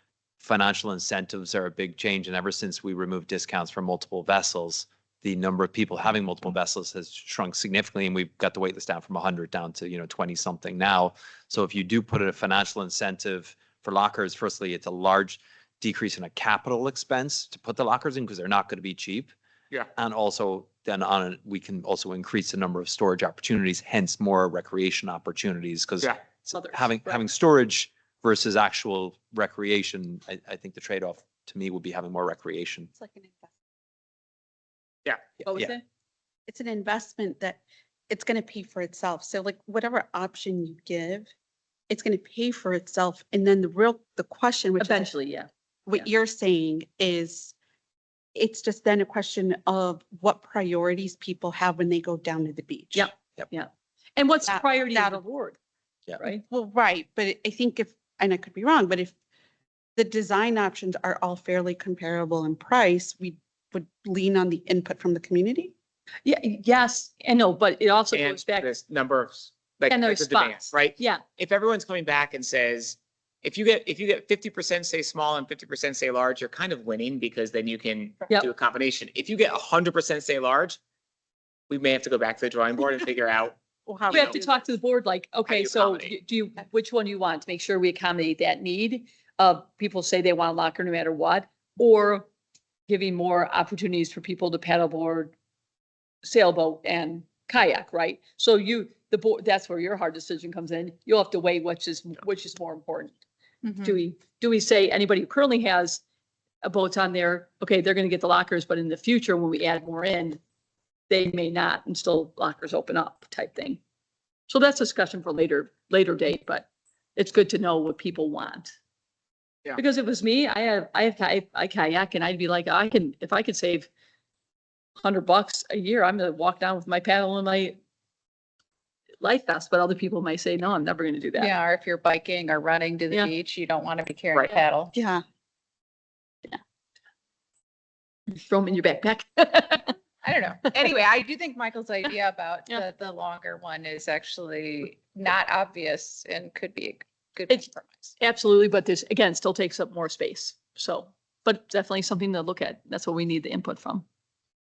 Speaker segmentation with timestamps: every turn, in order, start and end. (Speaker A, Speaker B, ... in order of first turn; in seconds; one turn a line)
Speaker A: 0.4-19.3
Speaker A: 19.9-32.9
Speaker B: 26.5-27.2
Speaker C: 33.0-33.5
Speaker B: 35.4-35.8
Speaker C: 36.5-41.3
Speaker C: 41.9-45.1
Speaker B: 44.8-46.0
Speaker C: 45.9-47.5
Speaker C: 48.4-53.1
Speaker B: 52.9-55.6
Speaker C: 54.5-55.2
Speaker C: 56.5-59.1
Speaker C: 60.0-65.7
Speaker B: 66.2-68.7
Speaker D: 68.1-80.8
Speaker B: 69.9-71.2
Speaker D: 81.7-83.5
Speaker C: 83.9-84.6
Speaker D: 84.1-84.3
Speaker B: 84.1-92.3
Speaker D: 85.5-86.2
Speaker B: 92.9-95.3
Speaker B: 96.2-103.2
Speaker B: 103.8-106.0
Speaker B: 106.6-110.4
Speaker B: 111.1-113.8
Speaker B: 114.5-118.7
Speaker B: 119.8-123.9
Speaker B: 125.0-127.8
Speaker B: 129.2-131.5
Speaker E: 131.4-134.9
Speaker C: 134.9-135.2
Speaker B: 138.3-139.9
Speaker E: 140.2-147.9
Speaker B: 148.2-154.1